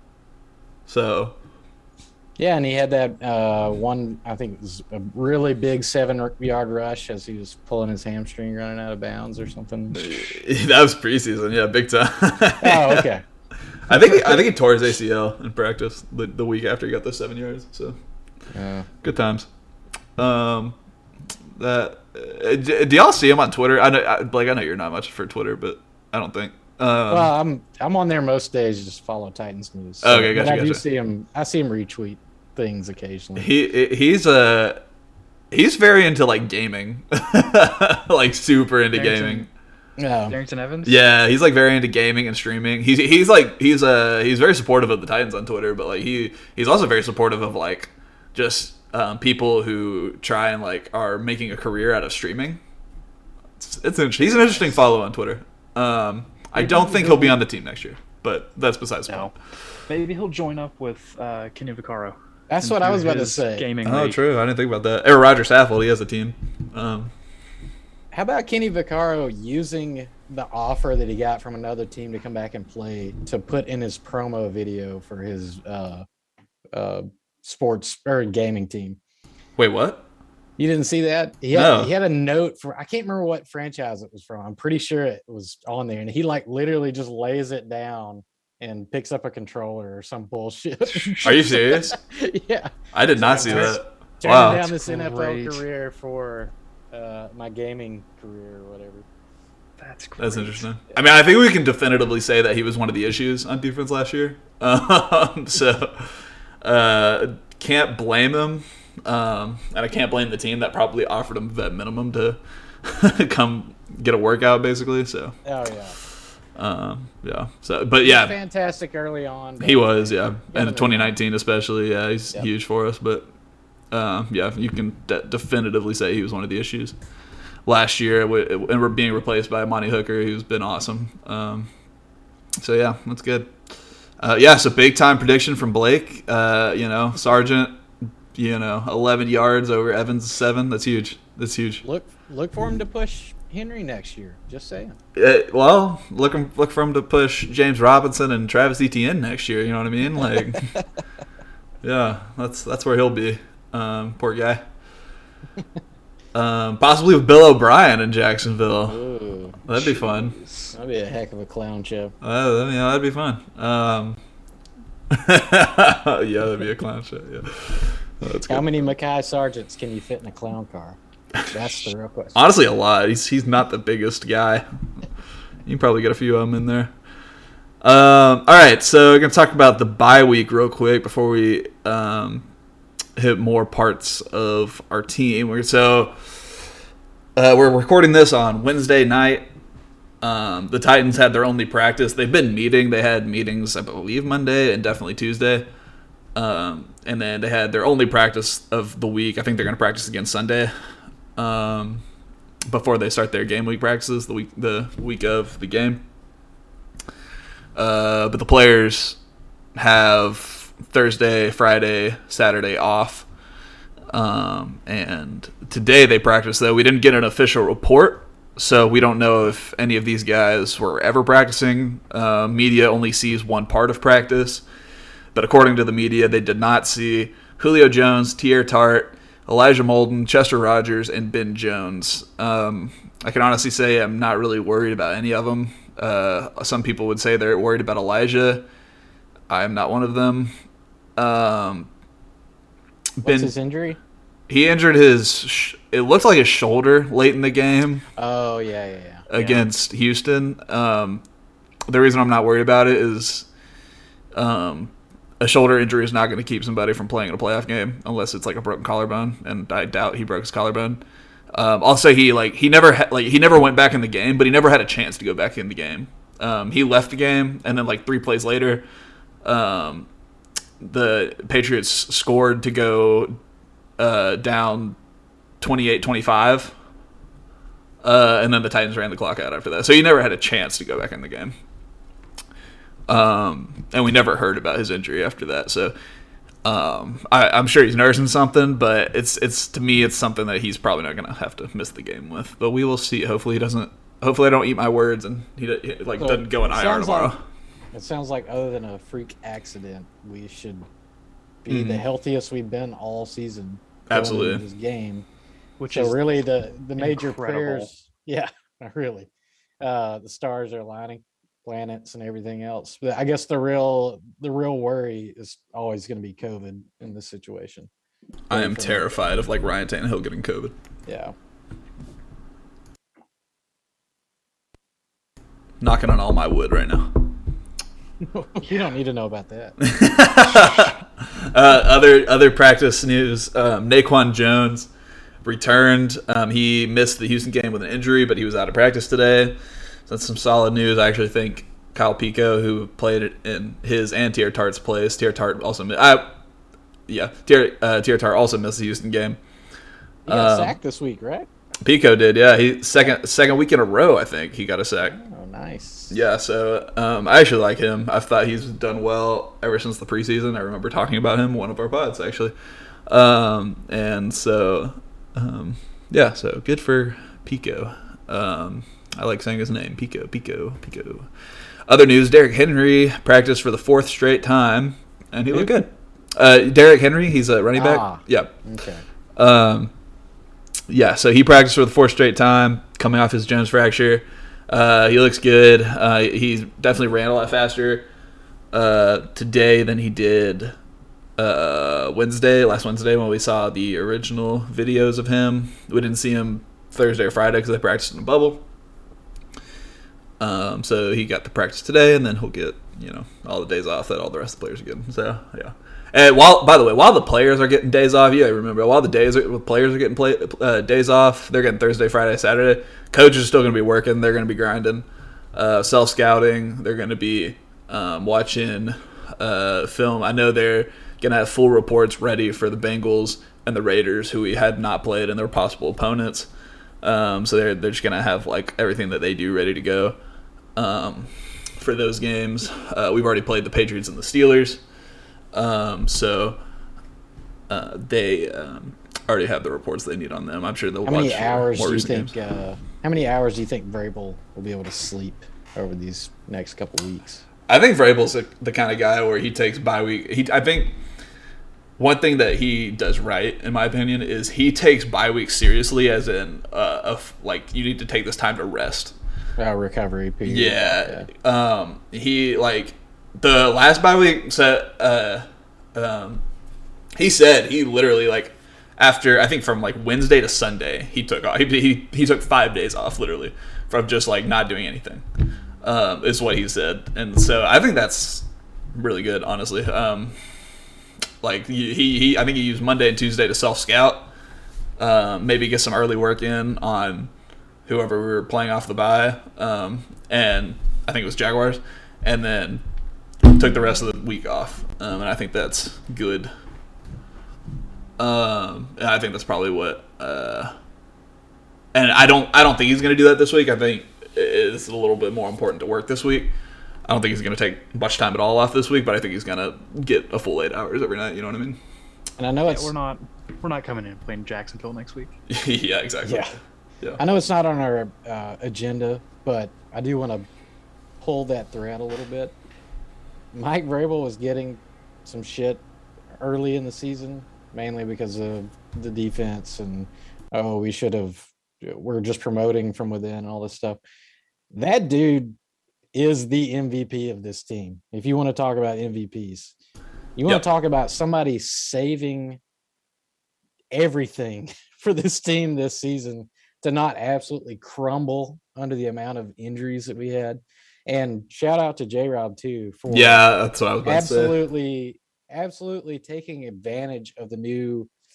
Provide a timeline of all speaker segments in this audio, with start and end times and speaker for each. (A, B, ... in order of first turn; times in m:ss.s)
0:00.9-0:01.4 A
0:02.4-0:10.3 B
0:09.9-0:13.1 A
0:12.6-0:13.2 B
0:13.8-0:18.0 A
0:13.9-0:14.5 B
0:18.5-0:18.9 B
0:19.0-0:19.5 A
0:20.2-0:20.8 A
0:21.6-0:27.3 A
0:27.1-0:33.5 B
0:30.0-0:30.8 A
0:33.4-0:34.8 A
0:35.5-0:39.5 A
0:38.9-0:39.5 C
0:40.0-0:40.4 B
0:40.3-0:41.0 C
0:40.9-0:52.6 A
0:53.6-0:59.4 A
0:54.3-0:54.6 C
0:56.6-0:57.4 C
0:59.1-0:59.3 C
0:59.9-1:04.2 C
1:02.5-1:03.7 B
1:03.8-1:07.1 A
1:08.1-1:16.1 B
1:16.7-1:19.0 B
1:19.6-1:20.0 A
1:20.6-1:39.1 B
1:21.5-1:21.9 A
1:31.0-1:31.3 C
1:31.2-1:32.0 A
1:32.9-1:34.7 A
1:33.5-1:33.8 C
1:34.7-1:35.6 C
1:39.8-1:40.7 C
1:40.2-1:55.4 A
1:55.4-1:56.0 B
1:56.6-1:58.3 A
1:58.0-2:01.2 B
1:59.6-2:03.3 A
2:03.9-2:07.0 A
2:07.7-2:11.7 A
2:12.6-2:13.5 A
2:14.2-2:17.8 A
2:18.4-2:21.8 A
2:21.8-2:25.0 B
2:25.2-2:30.7 A
2:30.6-2:30.8 B
2:31.8-2:34.6 A
2:36.3-2:39.0 A
2:38.9-2:39.7 B
2:39.6-2:40.4 A
2:39.8-2:40.7 C
2:40.7-2:42.1 B
2:42.2-2:44.2 A
2:45.1-2:48.8 A
2:48.5-2:51.0 B
2:51.5-2:52.4 B
2:52.4-2:54.6 A
2:55.7-2:56.9 A
2:57.8-3:02.5 A
3:03.2-3:06.6 A
3:07.4-3:09.5 A
3:10.2-3:15.7 A
3:16.4-3:20.7 A
3:21.4-3:22.0 A
3:22.7-3:26.0 A
3:27.8-3:29.2 A
3:29.8-3:33.3 A
3:34.1-3:44.6 A
3:45.3-3:58.7 A
3:59.5-4:00.5 A
4:01.2-4:01.9 A
4:03.2-4:03.5 A
4:03.2-4:04.0 B
4:04.5-4:08.0 A
4:08.2-4:09.3 B
4:09.3-4:11.2 A
4:09.3-4:09.6 C
4:11.9-4:13.5 A
4:14.3-4:21.0 A
4:21.5-4:28.8 A
4:29.4-4:30.1 A
4:30.8-4:33.4 A
4:34.0-4:35.0 A
4:35.6-4:36.8 A
4:38.0-4:41.6 A
4:43.1-4:46.0 A
4:46.6-4:57.4 A
4:56.2-4:57.3 B
4:57.9-5:00.9 B
5:01.6-5:05.3 B
5:01.7-5:02.0 A
5:04.1-5:04.6 A
5:05.8-5:06.2 C
5:05.9-5:17.9 B
5:07.0-5:07.9 C
5:18.5-5:20.7 A
5:18.5-5:19.3 B
5:21.1-5:21.4 B
5:25.8-5:27.3 A
5:28.2-5:29.8 B
5:29.8-5:34.9 A
5:35.4-5:46.4 A
5:47.1-5:49.4 A
5:50.3-5:50.8 A
5:50.3-5:51.5 B
5:51.8-5:55.2 A
5:55.1-5:56.2 B
5:56.1-6:02.5 A
6:03.1-6:11.3 A
6:11.9-6:18.6 A
6:17.8-6:19.0 B
6:19.4-6:19.9 A
6:20.9-6:28.1 A
6:28.7-6:30.8 A
6:31.4-6:38.6 A
6:40.4-7:06.5 A
7:07.0-7:10.2 A
7:10.8-7:14.8 A
7:15.5-7:16.6 A
7:17.7-7:22.3 A
7:21.0-7:27.4 B
7:27.7-7:31.0 A
7:32.0-7:39.2 A
7:39.6-7:41.3 B
7:40.5-7:46.4 A
7:47.2-7:55.2 A
7:55.8-8:00.4 A
8:01.4-8:04.3 A
8:05.0-8:07.3 A
8:07.9-8:12.8 A
8:13.4-8:16.5 A
8:18.2-8:20.7 A
8:21.9-8:26.5 A
8:27.1-8:31.8 A
8:32.4-8:32.9 B
8:32.7-8:35.4 C
8:35.5-8:37.2 A
8:36.2-8:36.6 B
8:37.2-8:40.5 B
8:41.2-8:42.6 B
8:43.5-8:45.8 B
8:46.4-8:54.0 B
8:54.7-8:55.6 B
8:56.1-8:59.8 B
9:00.4-9:02.6 B
9:03.9-9:13.4 B
9:13.1-9:14.6 A
9:14.0-9:18.1 B